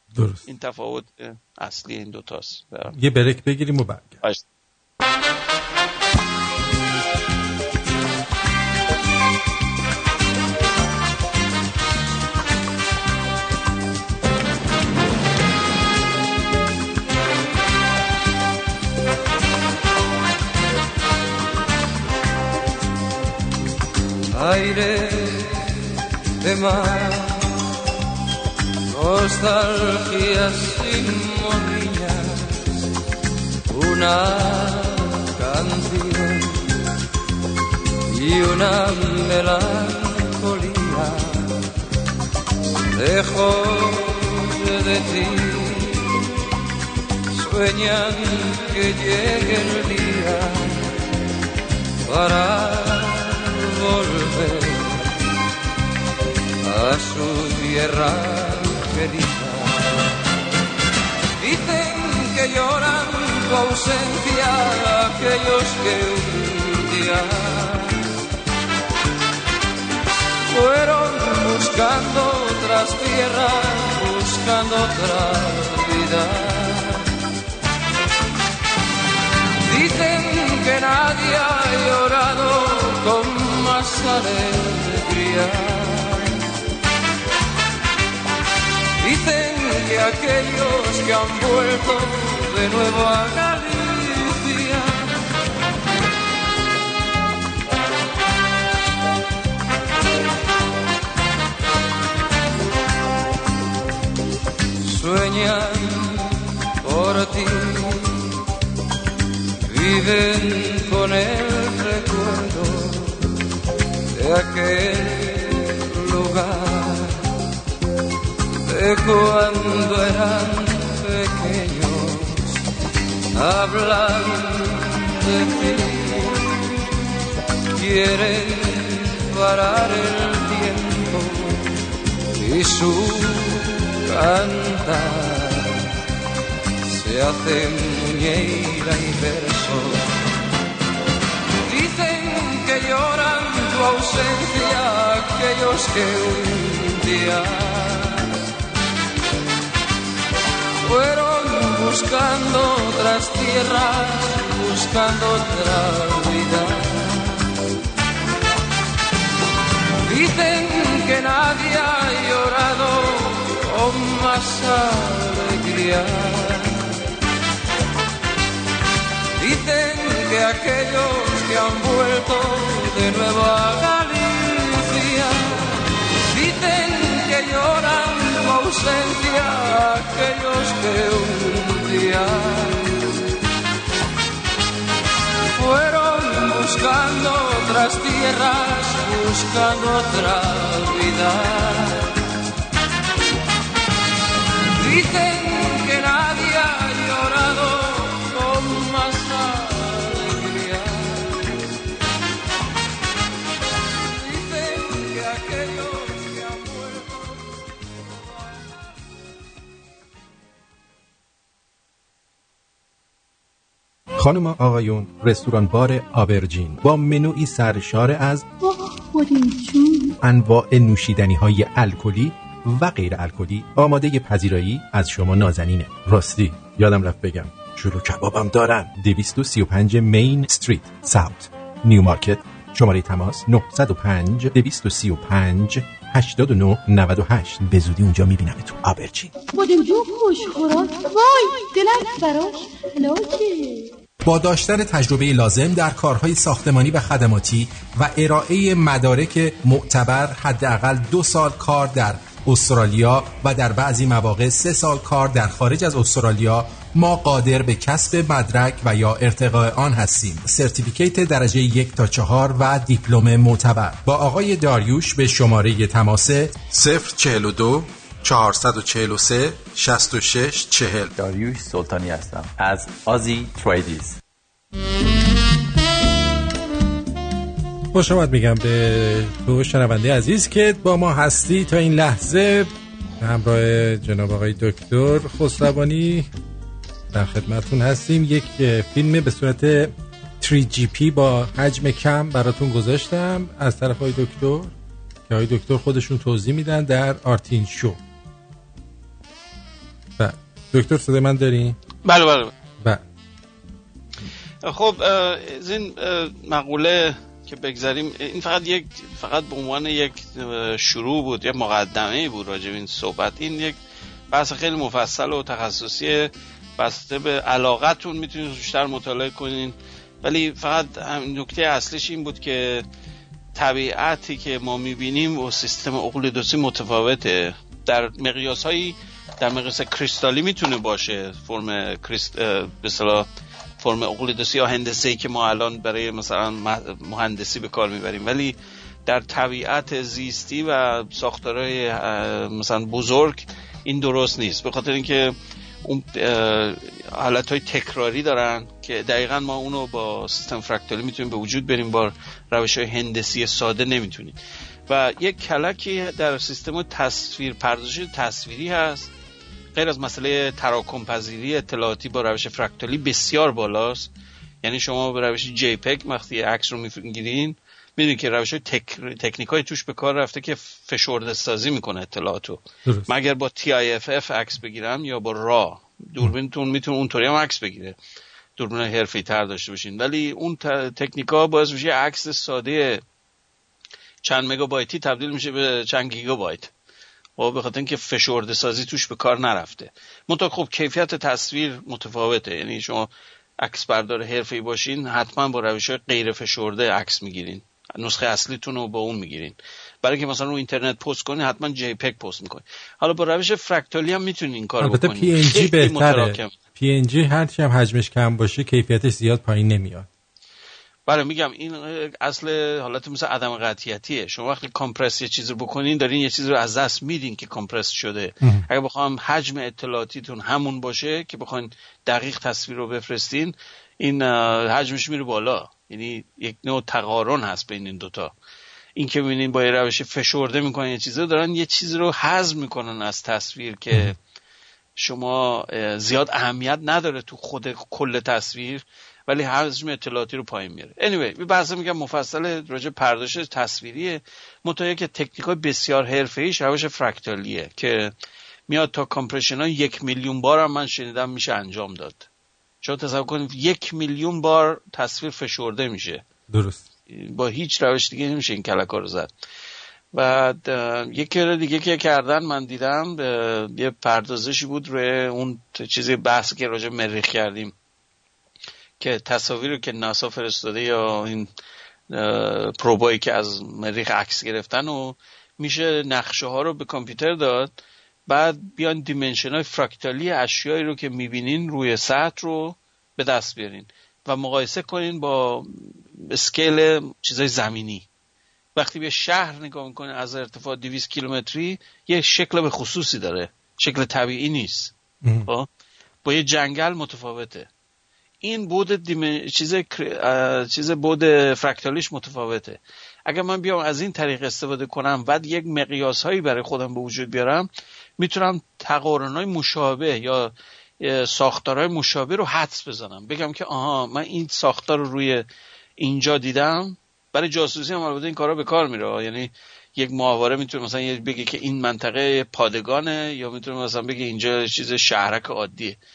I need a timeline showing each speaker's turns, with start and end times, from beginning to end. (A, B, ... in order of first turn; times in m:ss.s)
0:00.1-0:00.4 A
0:00.4-0:02.9 B
0:02.9-0:04.2 A
0:24.3-0:25.7 C
0:26.4-0:27.6 C
0:28.9-0:32.6 C
0:33.7-0:36.7 C
0:38.1-0:41.6 C
0:42.9-0:46.2 C
0:47.3-0:50.9 C
0:52.0-0:55.0 C
0:56.6-0:59.9 C
1:01.4-1:08.0 C
1:10.5-1:17.1 C
1:19.6-1:26.4 C
1:29.0-1:35.1 C
1:44.8-1:48.3 C
1:49.7-1:53.3 C
1:54.2-1:57.2 C
1:58.6-2:02.6 C
2:03.3-2:06.5 C
2:07.8-2:11.7 C
2:12.4-2:15.8 C
2:16.8-2:20.1 C
2:21.6-2:28.3 C
2:30.8-2:37.5 C
2:40.0-2:47.0 C
2:49.4-3:03.1 C
3:05.5-3:12.1 C
3:14.8-3:21.6 C
3:24.0-3:27.5 C
3:34.2-3:38.4 D
3:38.6-3:40.2 E
3:40.2-3:59.3 D
3:59.5-4:03.9 E
4:04.2-4:31.1 D
4:31.1-4:34.1 F
4:37.9-4:46.3 A
4:47.1-4:54.7 A
4:55.3-4:58.0 A
5:00.2-5:01.8 A
5:02.0-5:02.5 B
5:04.6-5:13.8 B
5:14.3-5:22.8 B
5:23.6-5:33.3 B
5:33.8-5:54.4 B
5:54.9-5:59.1 B
5:59.7-6:04.1 B
6:04.6-6:18.0 B
6:18.6-6:23.0 B
6:24.2-6:26.7 B
6:27.4-6:33.1 B
6:33.6-6:46.5 B
6:44.8-6:50.1 A
6:51.1-7:08.3 B
6:58.4-6:58.7 A
7:09.0-7:14.2 B
7:15.0-7:28.1 B
7:28.7-7:32.3 B
7:32.8-7:36.2 B
7:36.5-7:36.8 A
7:37.1-7:39.3 B
7:40.1-7:47.7 B
7:49.0-7:51.5 B
7:52.1-7:57.7 B
7:58.3-8:08.1 B
8:08.8-8:14.9 B
8:15.2-8:15.5 A
8:16.2-8:17.7 B
8:18.4-8:35.5 B
8:36.0-8:46.0 B